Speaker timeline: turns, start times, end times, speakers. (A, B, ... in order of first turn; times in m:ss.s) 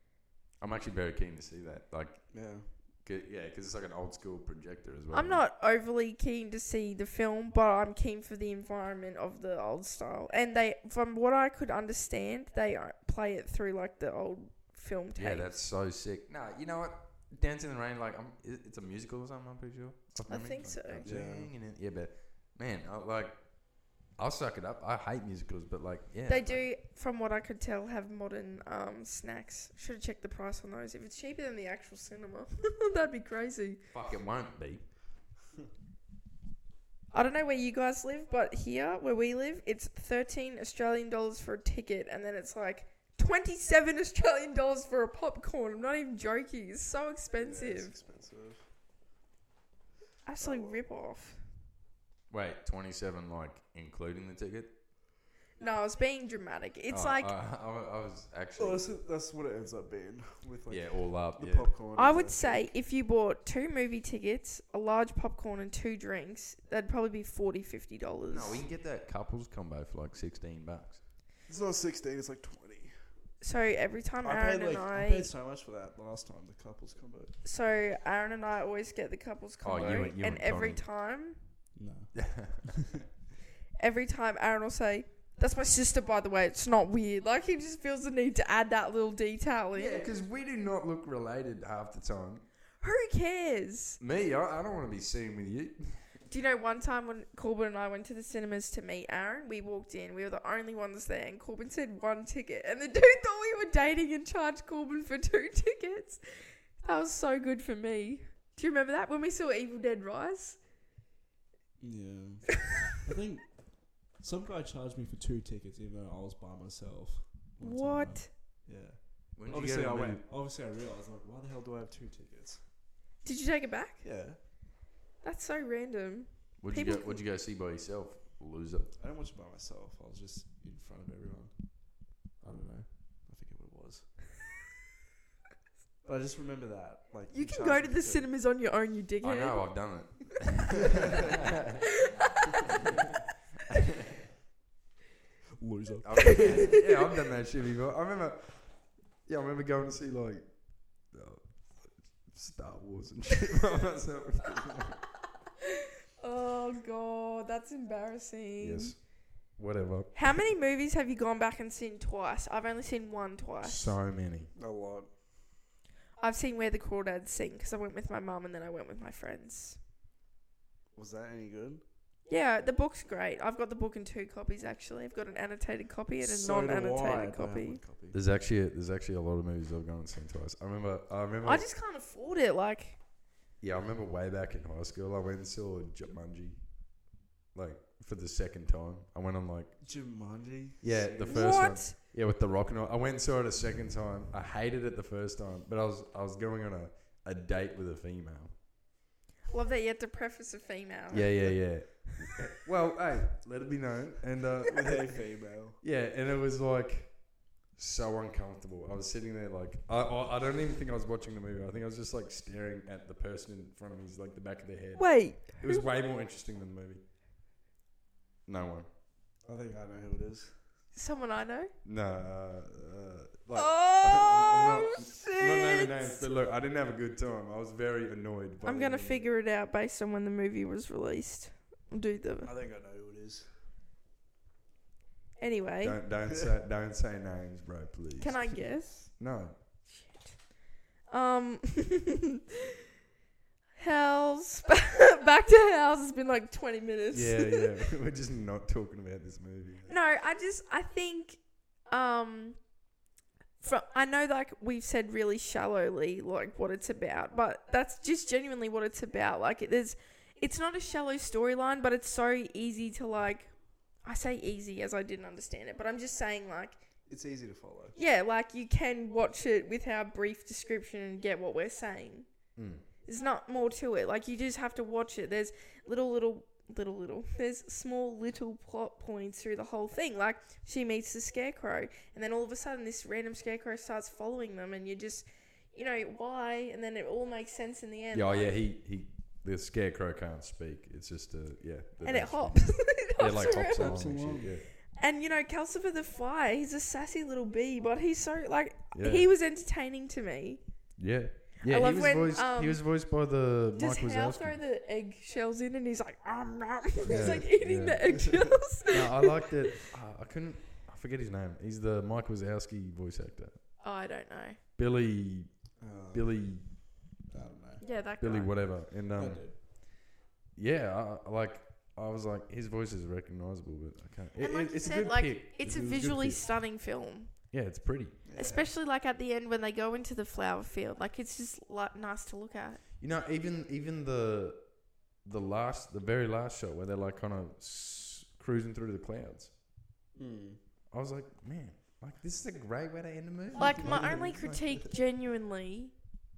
0:00.6-0:05.4 A
0:02.3-0:02.7 B
0:05.1-0:15.6 C
0:15.2-0:26.7 A
0:20.3-0:21.0 C
0:21.0-0:21.5 B
0:26.3-0:33.8 C
0:33.9-0:34.9 A
0:37.1-0:47.9 C
0:47.4-0:48.6 B
0:50.2-0:51.4 C
0:50.4-0:50.8 B
0:52.3-0:54.8 A
0:55.6-0:57.3 C
0:56.9-0:58.9 A
0:58.6-1:02.7 B
1:00.7-1:01.8 A
1:02.0-1:08.6 C
1:08.3-1:11.0 A
1:11.5-1:13.0 B
1:13.4-1:15.3 C
1:14.2-1:17.4 B
1:17.4-1:21.4 C
1:19.6-1:20.8 A
1:21.7-1:22.7 B
1:22.1-1:22.9 A
1:23.8-1:30.1 C
1:29.7-1:32.5 A
1:32.8-1:34.0 C
1:34.0-1:36.2 A
1:36.3-1:50.6 C
1:51.8-2:02.6 B
1:57.6-1:58.3 C
1:59.3-2:00.2 A
2:03.2-2:04.0 C
2:04.0-2:04.4 B
2:05.2-2:07.2 C
2:06.6-2:08.9 A
2:09.0-2:14.2 B
2:16.0-2:18.3 B
2:17.3-2:19.8 C
2:19.2-2:21.0 A
2:25.6-2:26.7 B
2:26.0-2:35.0 A
2:26.3-2:26.7 C
2:36.2-2:38.9 C
2:38.6-2:40.4 A
2:40.1-2:43.9 C
2:43.6-2:44.5 A
2:44.5-2:45.1 B
2:46.2-2:49.8 C
2:50.9-2:51.8 B
2:52.3-2:57.8 C
2:56.2-2:58.2 B
2:58.1-3:01.6 A
3:01.4-3:03.0 C
3:03.6-3:10.0 A
3:09.8-3:11.8 B
3:10.8-3:18.5 A
3:11.3-3:11.9 C
3:19.5-3:21.7 C
3:21.1-3:25.3 A
3:24.7-3:25.8 B
3:25.8-3:37.0 A
3:35.0-3:35.8 C
3:38.4-3:38.9 A
3:39.4-3:40.6 B
3:40.9-3:41.7 C
3:41.8-3:49.3 A
3:43.5-3:46.3 C
3:48.6-3:52.5 C
3:52.4-3:53.5 B
3:55.4-3:56.0 C
3:55.8-3:59.8 A
3:58.2-3:59.2 C
3:59.9-4:02.2 C
4:03.8-4:07.7 C
4:07.1-4:09.9 A
4:09.9-4:12.7 C
4:13.6-4:26.8 C
4:27.1-4:28.0 B
4:28.0-4:32.3 C
4:32.6-4:32.8 A
4:33.0-4:48.5 C
4:48.1-4:54.7 A
4:52.0-4:54.2 C
4:53.8-4:54.6 B
4:54.9-5:00.6 C
4:58.9-4:59.3 A
5:01.0-5:04.6 A
5:01.6-5:02.9 C
5:03.8-5:09.7 C
5:07.0-5:13.7 A
5:13.8-5:14.6 C
5:14.8-5:17.0 A
5:15.8-5:16.5 B
5:17.3-5:17.8 B
5:17.8-5:18.6 C
5:18.2-5:20.0 A
5:19.1-5:19.6 B
5:20.6-5:26.4 A
5:24.4-5:27.4 C
5:24.8-5:25.2 B
5:27.5-5:28.2 A
5:28.2-5:28.7 B
5:28.3-5:32.8 C
5:33.0-5:39.5 A
5:40.1-5:40.6 B
5:40.9-5:44.7 A
5:43.6-5:46.0 C
5:43.8-5:44.3 B